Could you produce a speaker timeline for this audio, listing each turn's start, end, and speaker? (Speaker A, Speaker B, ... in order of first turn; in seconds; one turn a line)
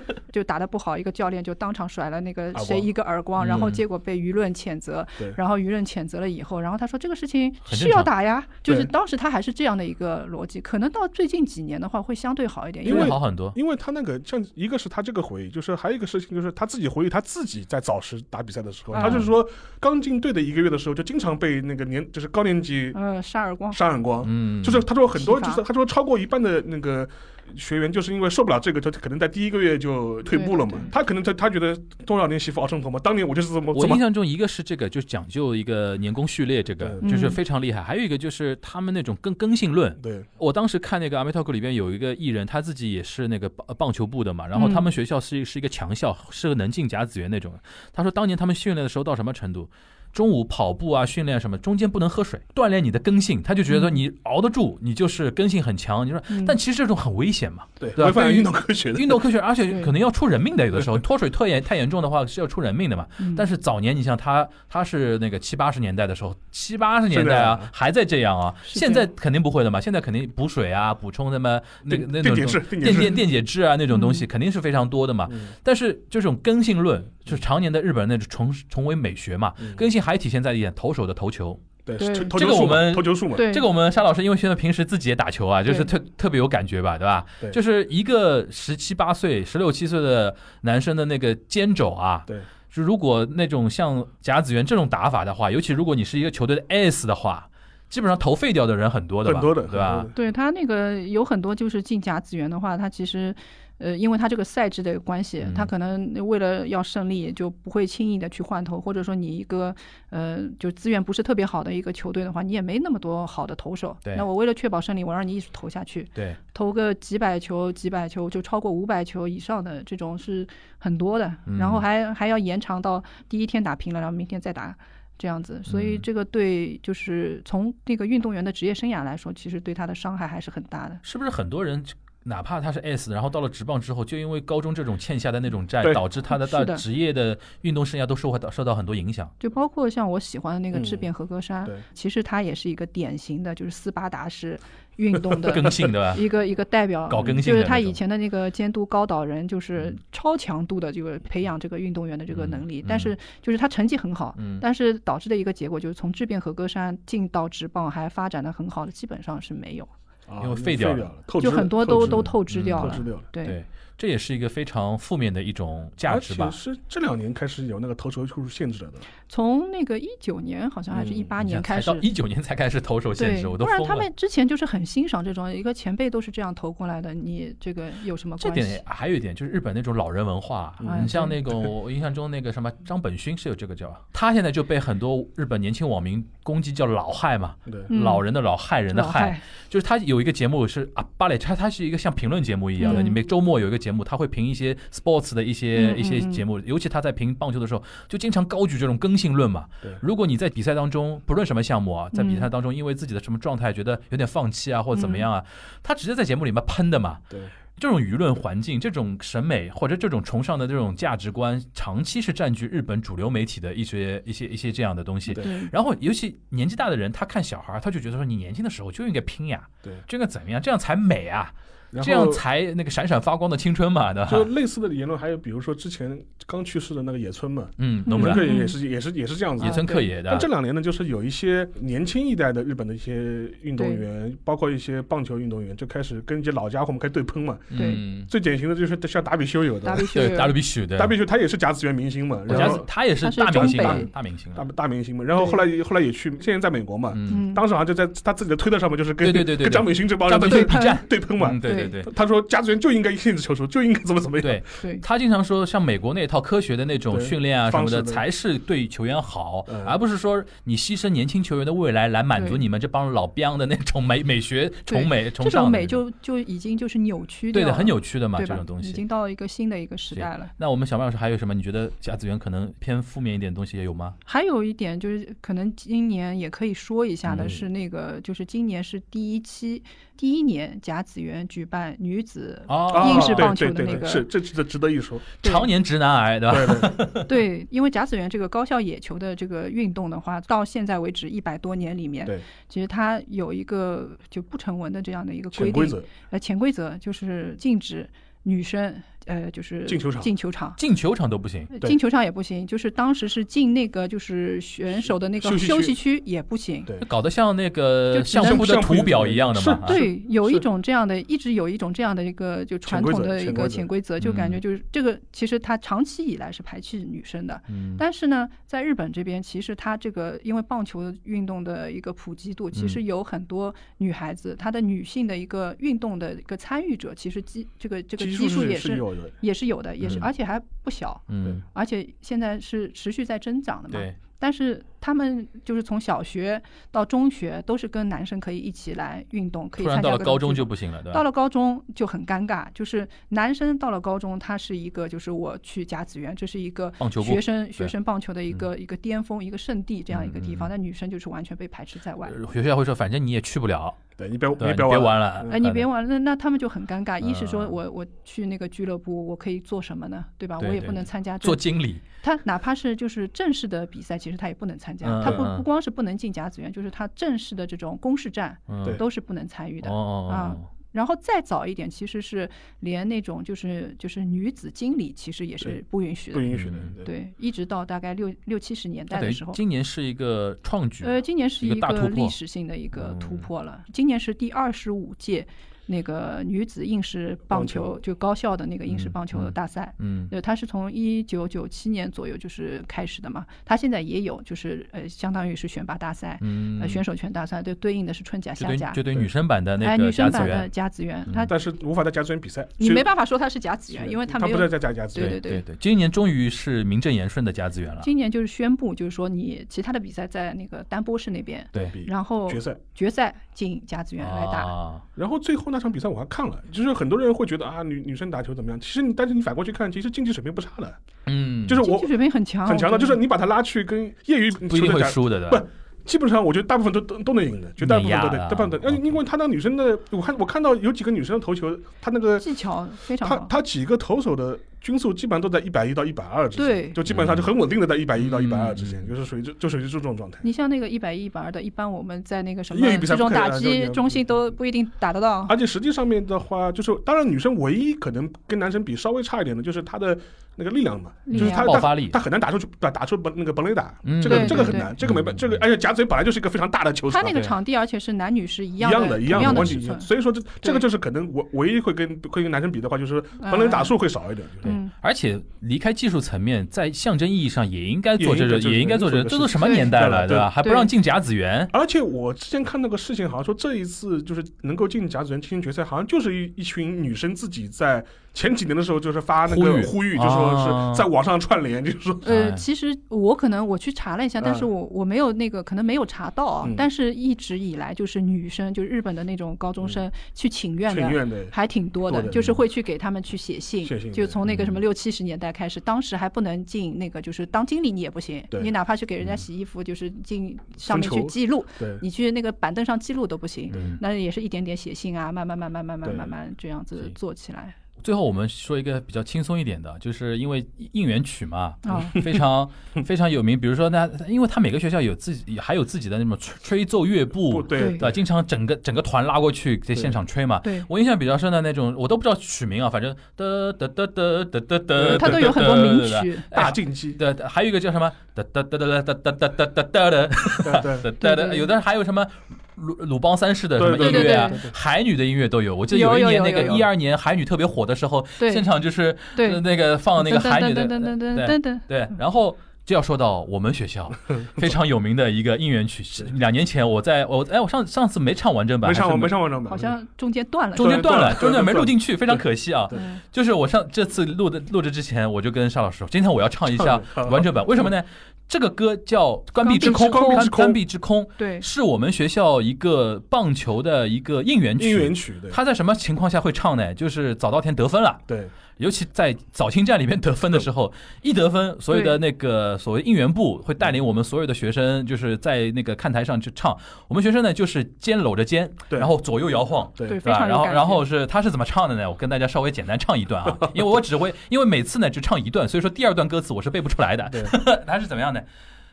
Speaker A: 0.3-13.2
Speaker B: 2.5-2.9
Speaker C: 3.4-3.8
Speaker C: 7.7-8.1
Speaker C: 12.8-13.6
Speaker B: 12.8-23.0
Speaker A: 19.0-19.2
Speaker C: 19.0-19.3
Speaker A: 22.9-23.8
Speaker B: 23.7-34.0
Speaker C: 24.2-24.9
Speaker A: 25.1-25.6
Speaker A: 30.3-30.9
Speaker C: 33.7-81.6
Speaker B: 36.8-37.2
Speaker A: 37.0-37.4
Speaker B: 40.0-40.3
Speaker A: 44.5-44.8
Speaker A: 53.7-54.0
Speaker A: 56.3-56.5
Speaker B: 57.8-59.3
Speaker A: 63.2-63.5
Speaker B: 67.1-67.7
Speaker A: 68.7-69.0
Speaker B: 71.9-73.2
Speaker A: 73.9-74.2
Speaker B: 79.6-79.9
Speaker B: 81.9-83.5
Speaker A: 82.0-82.3
Speaker C: 82.3-100.1
Speaker A: 83.3-83.6
Speaker B: 99.2-100.1
Speaker A: 100.1-131.0
Speaker C: 105.4-105.7
Speaker C: 121.5-121.8
Speaker C: 125.7-126.0
Speaker C: 131.0-139.3
Speaker A: 136.3-136.8
Speaker A: 139.4-159.9
Speaker B: 140.7-141.1
Speaker C: 145.4-146.2
Speaker C: 147.1-148.0
Speaker C: 152.3-153.1
Speaker C: 154.4-154.6
Speaker B: 160.3-163.2
Speaker C: 160.4-161.1
Speaker A: 161.4-163.6
Speaker C: 161.9-166.6
Speaker B: 166.1-169.1
Speaker A: 169.3-172.1
Speaker B: 170.9-171.3
Speaker C: 171.4-174.1
Speaker A: 173.2-178.8
Speaker C: 178.4-207.2
Speaker B: 180.8-181.7
Speaker A: 180.8-181.4
Speaker A: 187.9-188.2
Speaker A: 188.9-189.4
Speaker A: 192.8-193.2
Speaker A: 195.7-196.4
Speaker A: 202.1-202.5
Speaker A: 204.9-205.2
Speaker C: 207.8-224.5
Speaker A: 215.3-215.7
Speaker B: 221.9-222.4
Speaker B: 224.3-240.2
Speaker C: 227.8-228.5
Speaker A: 228.1-228.7
Speaker C: 229.6-230.5
Speaker A: 229.6-229.9
Speaker A: 233.8-234.0
Speaker C: 237.7-238.3
Speaker A: 237.7-238.0
Speaker A: 239.8-240.6
Speaker C: 240.1-241.2
Speaker B: 240.9-254.6
Speaker C: 242.5-244.6
Speaker A: 242.5-244.1
Speaker C: 247.1-247.5
Speaker A: 247.3-247.6
Speaker C: 249.2-252.1
Speaker A: 250.4-251.1
Speaker A: 251.6-251.9
Speaker C: 254.4-266.0
Speaker B: 257.1-258.2
Speaker B: 259.7-260.0
Speaker A: 262.4-262.6
Speaker A: 264.9-270.5
Speaker C: 267.5-269.0
Speaker C: 270.1-274.2
Speaker A: 274.3-284.3
Speaker C: 277.3-277.6
Speaker C: 282.7-283.9
Speaker B: 282.9-285.3
Speaker C: 285.4-287.3
Speaker A: 285.4-285.7
Speaker B: 286.5-287.0
Speaker A: 287.2-300.8
Speaker B: 295.5-296.1
Speaker B: 299.9-300.3
Speaker C: 300.8-301.7
Speaker A: 301.7-306.9
Speaker B: 305.4-306.0
Speaker C: 307.0-310.0
Speaker A: 308.1-309.0
Speaker B: 308.4-310.6
Speaker A: 309.8-352.4
Speaker B: 312.9-313.9
Speaker C: 314.2-314.6
Speaker C: 317.7-318.0
Speaker C: 322.7-323.0
Speaker B: 328.2-329.3
Speaker C: 330.0-330.3
Speaker C: 331.3-331.6
Speaker C: 333.9-334.2
Speaker C: 339.8-341.2
Speaker C: 347.0-347.9
Speaker C: 350.1-350.7
Speaker C: 352.2-354.0
Speaker B: 354.2-355.6
Speaker C: 354.6-355.9
Speaker A: 355.5-379.6
Speaker C: 357.2-357.7
Speaker C: 360.6-362.0
Speaker C: 365.0-365.6
Speaker C: 368.7-369.0
Speaker C: 369.8-370.6
Speaker B: 376.3-377.1
Speaker C: 376.5-376.9
Speaker C: 379.1-382.4
Speaker A: 381.0-399.0
Speaker C: 382.9-383.4
Speaker B: 387.5-387.9
Speaker C: 388.9-390.3
Speaker C: 396.4-397.0
Speaker C: 398.6-400.7
Speaker A: 399.8-401.6
Speaker B: 401.4-403.1
Speaker A: 402.8-405.6
Speaker B: 403.9-405.4
Speaker C: 405.2-408.1
Speaker A: 408.0-414.7
Speaker B: 411.8-412.8
Speaker C: 414.2-415.1
Speaker B: 415.2-421.0
Speaker C: 421.3-421.9
Speaker B: 421.7-422.1
Speaker A: 421.8-423.2
Speaker B: 422.7-432.5
Speaker C: 424.7-425.7
Speaker C: 427.8-429.1
Speaker A: 432.4-433.5
Speaker B: 433.2-440.5
Speaker A: 436.6-437.0
Speaker C: 437.1-437.5
Speaker C: 438.2-439.1
Speaker A: 440.4-445.6
Speaker B: 442.7-444.5
Speaker B: 445.5-457.4
Speaker A: 451.3-451.8
Speaker C: 451.3-452.2
Speaker C: 454.0-455.5
Speaker A: 454.3-454.9
Speaker A: 457.1-460.1
Speaker C: 457.3-457.6
Speaker B: 458.8-464.7
Speaker C: 459.3-459.8
Speaker A: 463.4-463.9
Speaker C: 464.6-471.7
Speaker A: 464.6-464.9
Speaker B: 468.2-470.5
Speaker A: 469.6-469.9
Speaker A: 470.6-470.9
Speaker B: 471.7-482.3
Speaker C: 479.5-481.1
Speaker A: 482.2-507.7
Speaker C: 482.3-482.6
Speaker B: 484.4-484.7
Speaker B: 490.9-491.5
Speaker B: 492.1-492.5
Speaker B: 493.8-494.4
Speaker C: 494.4-494.8
Speaker B: 500.8-502.0
Speaker C: 503.7-504.0
Speaker B: 506.0-506.3
Speaker C: 508.0-549.3
Speaker A: 511.8-512.2
Speaker B: 517.5-518.2
Speaker A: 517.7-518.0
Speaker B: 525.0-525.7
Speaker A: 525.1-526.5
Speaker B: 526.5-527.2
Speaker B: 530.6-531.0
Speaker A: 531.2-531.7
Speaker B: 533.8-534.7
Speaker A: 534.0-534.6
Speaker A: 535.9-536.8
Speaker A: 538.4-538.7
Speaker A: 539.3-539.6
Speaker A: 540.1-541.9
Speaker B: 548.8-550.0
Speaker A: 549.7-551.2
Speaker B: 550.8-553.0
Speaker C: 550.8-588.5
Speaker A: 552.9-553.2
Speaker B: 556.7-557.9
Speaker A: 559.6-560.5
Speaker B: 559.8-560.8
Speaker A: 561.4-561.7
Speaker B: 564.8-565.6
Speaker A: 571.9-572.2
Speaker A: 580.0-581.0